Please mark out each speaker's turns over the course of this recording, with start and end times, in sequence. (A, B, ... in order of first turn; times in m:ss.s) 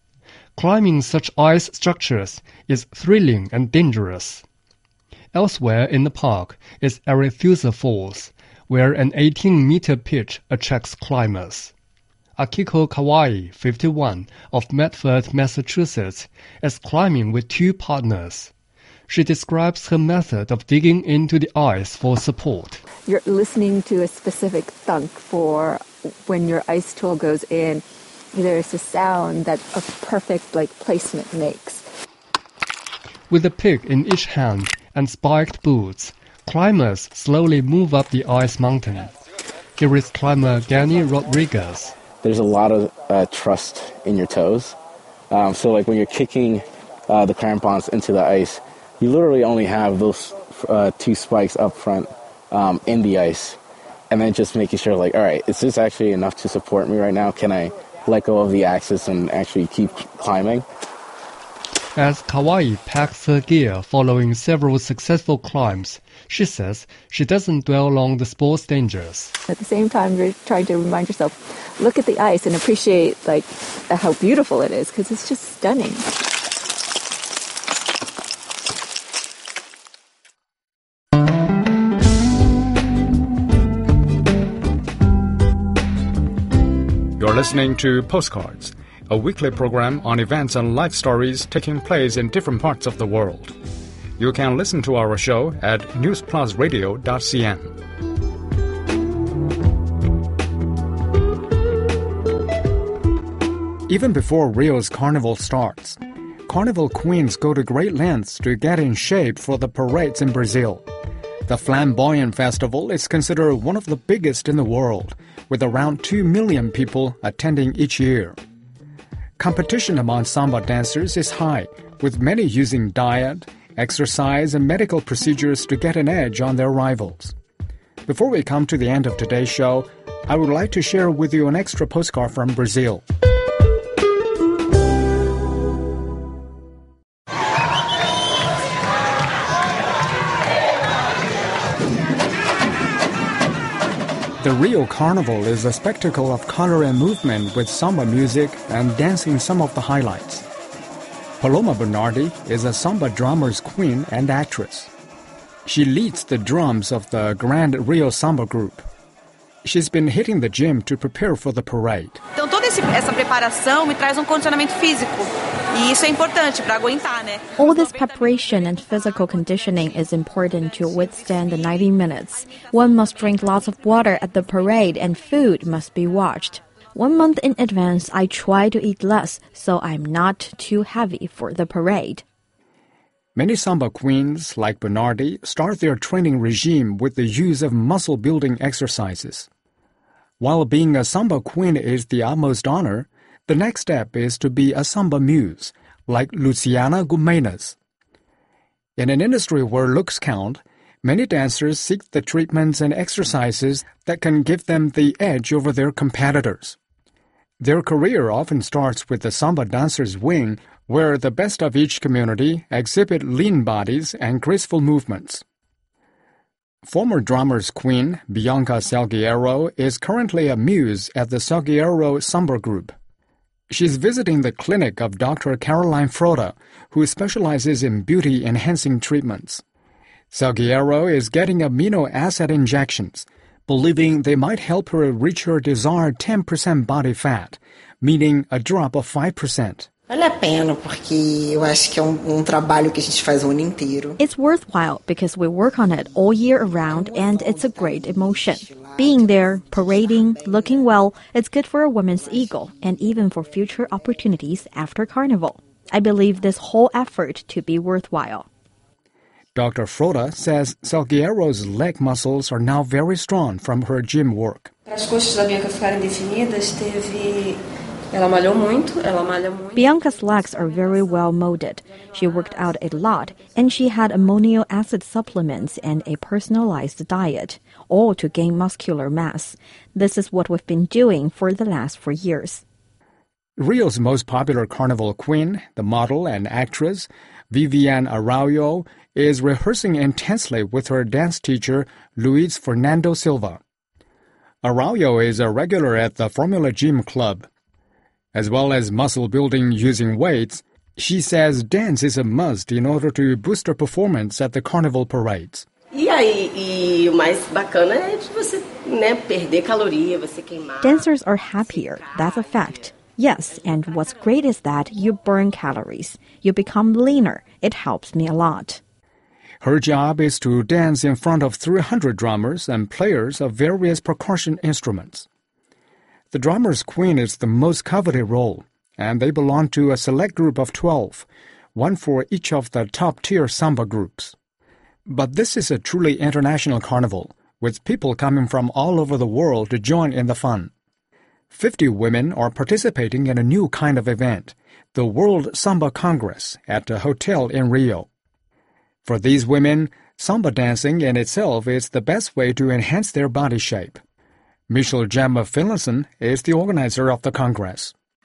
0:00.6-0:04.4 A
0:05.3-0:11.7 A
0:12.4-0:18.5 A
0:19.1-0:22.8 A
0:23.0-0:31.8 B
0:33.3-0:39.1 A
0:39.8-0:42.0 A
0:42.2-0:44.8 C
0:45.3-0:53.6 C
0:54.1-1:00.6 C
1:02.0-1:09.4 A
1:09.5-1:16.1 B
1:27.2-1:33.6 D
1:34.2-1:37.7 D
1:43.9-1:50.9 D
1:51.5-1:58.4 D
1:59.4-2:07.4 D
2:08.1-2:13.0 D
2:24.4-2:30.5 D
2:31.4-2:34.9 D
2:35.6-2:38.9 D
2:39.6-2:42.2 D
2:42.4-2:47.4 E
2:47.6-3:02.2 F
3:03.4-3:09.5 D
3:10.4-3:17.8 D
3:19.0-3:26.8 D
3:27.6-3:35.4 D
3:36.8-3:43.0 D
3:43.7-3:49.6 D
3:50.3-3:59.9 D
4:00.1-4:04.2 G
4:04.2-4:18.5 F
4:07.0-4:09.3 G
4:19.6-4:24.7 D
4:29.8-4:42.6 F
4:43.6-4:53.6 D
4:54.6-4:57.5 D
4:58.3-5:05.7 D
5:05.9-5:11.1 H
5:10.8-5:18.8 F
5:11.7-5:12.8 H
5:19.6-5:25.3 D
5:26.3-5:34.4 D
5:35.1-5:40.7 D
5:41.5-5:48.1 D
5:49.0-5:54.0 D
5:54.7-5:57.9 D